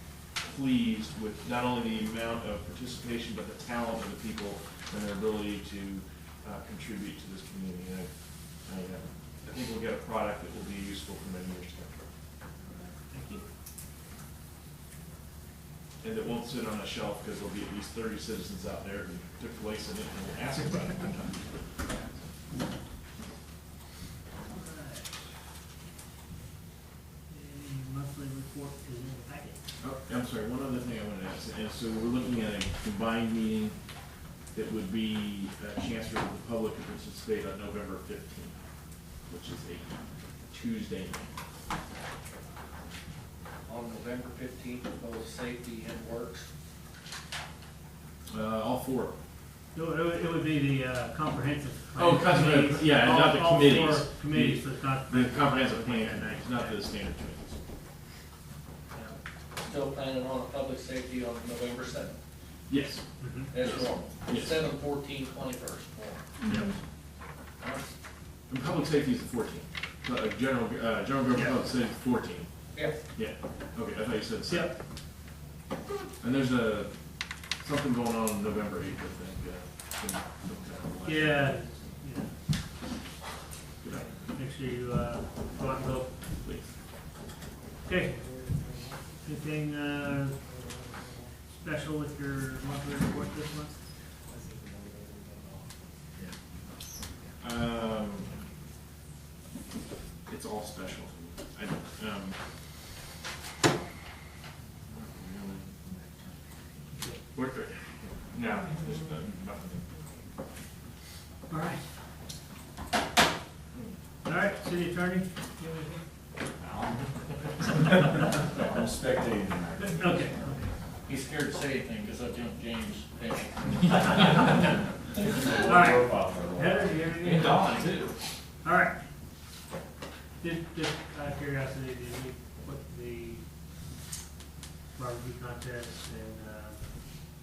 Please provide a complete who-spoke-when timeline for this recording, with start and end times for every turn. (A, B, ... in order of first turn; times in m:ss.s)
0:00.4-0:08.1 A
0:08.6-0:12.0 A
0:12.6-0:13.4 B
0:16.0-0:21.6 A
0:24.5-0:25.2 B
0:27.3-0:29.6 B
0:29.8-0:33.8 A
0:34.5-0:38.6 A
0:39.3-0:41.3 A
0:43.7-0:46.5 C
0:48.3-0:49.2 A
0:49.7-0:56.8 B
0:52.0-0:57.6 A
0:59.6-1:02.2 C
1:02.7-1:03.0 A
1:03.2-1:03.5 B
1:03.5-1:06.4 C
1:03.6-1:04.6 A
1:07.6-1:07.9 C
1:08.5-1:12.5 A
1:12.7-1:13.0 C
1:13.1-1:14.7 A
1:14.5-1:14.8 B
1:16.2-1:16.9 A
1:17.6-1:21.6 A
1:21.0-1:22.3 B
1:23.9-1:26.2 B
1:26.4-1:26.7 A
1:27.8-1:28.2 B
1:28.2-1:29.0 C
1:29.2-1:30.4 B
1:30.5-1:31.3 C
1:31.6-1:33.8 B
1:34.3-1:35.7 C
1:37.4-1:38.4 A
1:40.3-1:42.4 A
1:44.9-1:46.1 A
1:47.3-1:49.8 A
1:51.5-1:51.9 B
1:54.2-1:56.0 B
1:58.5-2:00.2 D
1:59.8-2:00.7 B
2:01.1-2:04.2 C
2:04.0-2:04.3 B
2:05.2-2:07.1 D
2:05.5-2:07.7 B
2:07.2-2:08.2 A
2:08.6-2:09.0 B
2:10.4-2:13.4 B
2:14.9-2:17.0 B